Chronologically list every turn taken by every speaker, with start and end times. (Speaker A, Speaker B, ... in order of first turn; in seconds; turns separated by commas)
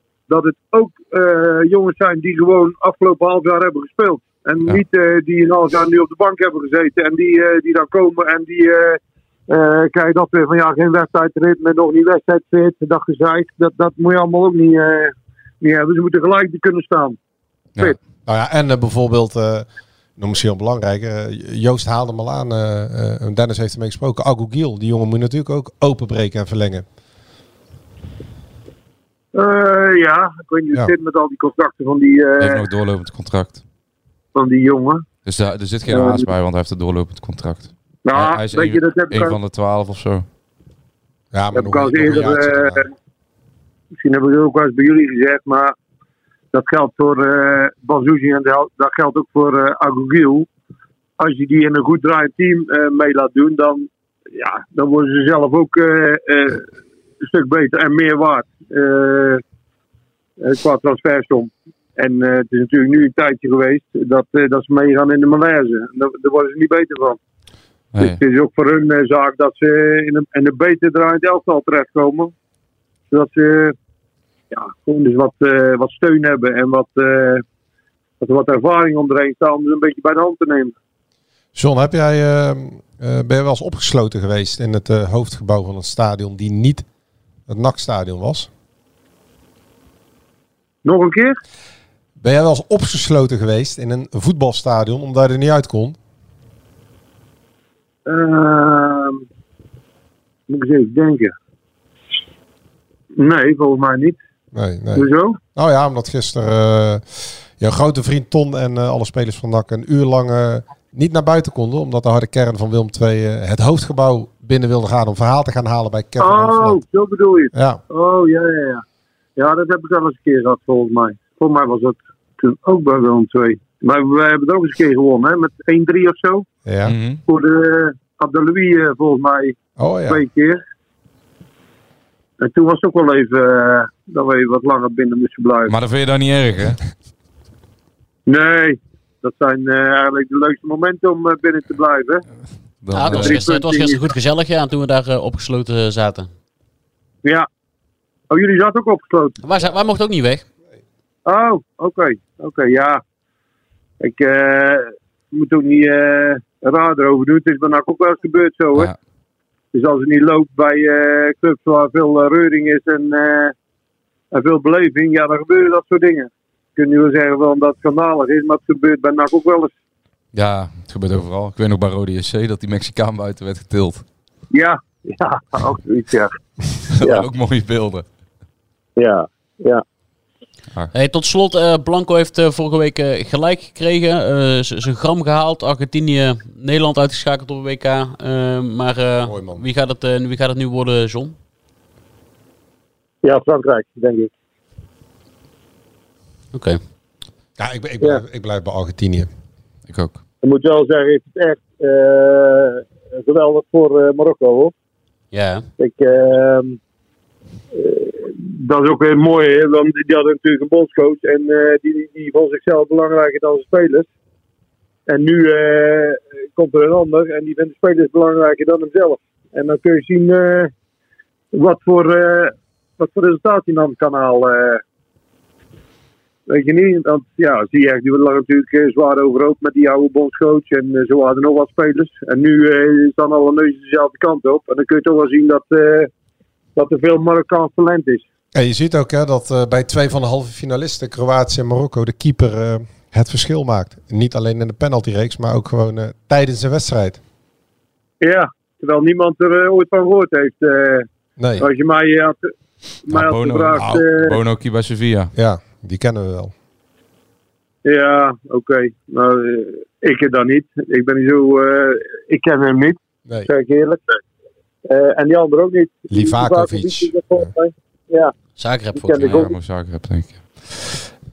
Speaker A: 0.3-17.2, Speaker B: 18.2-19.7, Speaker B: 20.2-26.8, Speaker A: 29.3-32.6, Speaker C: 32.4-33.6, Speaker A: 34.3-35.0, Speaker C: 35.2-40.2, Speaker A: 35.9-36.3, Speaker A: 38.0-39.4, Speaker B: 41.3-42.8, Speaker A: 41.5-42.9, Speaker A: 44.0-45.7, Speaker A: 46.5-50.5, Speaker A: 51.2-56.6, Speaker A: 57.2-59.4, Speaker A: 60.4-67.2, Speaker C: 67.9-68.2, Speaker A: 68.0-72.3, Speaker A: 73.1-73.7, Speaker A: 74.5-77.4, Speaker A: 78.2-80.7, Speaker B: 81.5-86.8, Speaker B: 87.5-88.5, Speaker A: 90.8-91.4, Speaker B: 92.2-96.0, Speaker A: 98.0-99.2, Speaker A: 100.5-101.3, Speaker A: 103.2-104.2, Speaker B: 104.5-116.8, Speaker A: 104.9-105.4, Speaker A: 116.2-118.8, Speaker B: 117.5-117.8, Speaker A: 119.3-126.5, Speaker B: 126.7-126.9, Speaker C: 126.8-127.2, Speaker A: 127.3-129.6, Speaker B: 129.8-130.2, Speaker A: 130.1-130.6, Speaker A: 132.4-135.7, Speaker C: 135.7-136.8, Speaker A: 138.3-142.2, Speaker C: 142.8-143.4, Speaker D: 142.9-146.3, Speaker A: 143.0-144.1, Speaker A: 148.3-149.4, Speaker D: 149.4-150.4, Speaker A: 151.2-153.0, Speaker A: 154.0-158.9, Speaker A: 159.7-163.5, Speaker A: 164.3-169.7, Speaker C: 170.3-174.0, Speaker A: 174.5-176.3, Speaker C: 176.9-178.0, Speaker A: 177.0-177.3, Speaker A: 179.0-179.8, Speaker D: 180.9-191.3, Speaker B: 189.2-189.6, Speaker A: 193.2-194.3, Speaker D: 196.5-196.8, Speaker B: 197.6-199.3, Speaker C: 199.9-200.2, Speaker A: 200.4-204.7, Speaker D: 205.3-205.7, Speaker A: 205.8-206.8, Speaker A: 207.7-214.1, Speaker A: 215.1-220.7, Speaker A: 221.5-224.8, Speaker A: 226.5-236.1, Speaker A: 236.8-238.2, Speaker B: 238.5-247.2, Speaker A: 248.2-251.1, Speaker B: 251.4-251.7, Speaker A: 251.6-252.5, Speaker A: 253.0-254.3, Speaker C: 253.1-255.3, Speaker B: 253.8-254.0, Speaker B: 255.3-256.5, Speaker A: 257.8-264.2, Speaker A: 264.9-268.3, Speaker B: 266.1-267.5, Speaker D: 268.6-269.4, Speaker A: 268.9-269.5, Speaker C: 269.2-271.0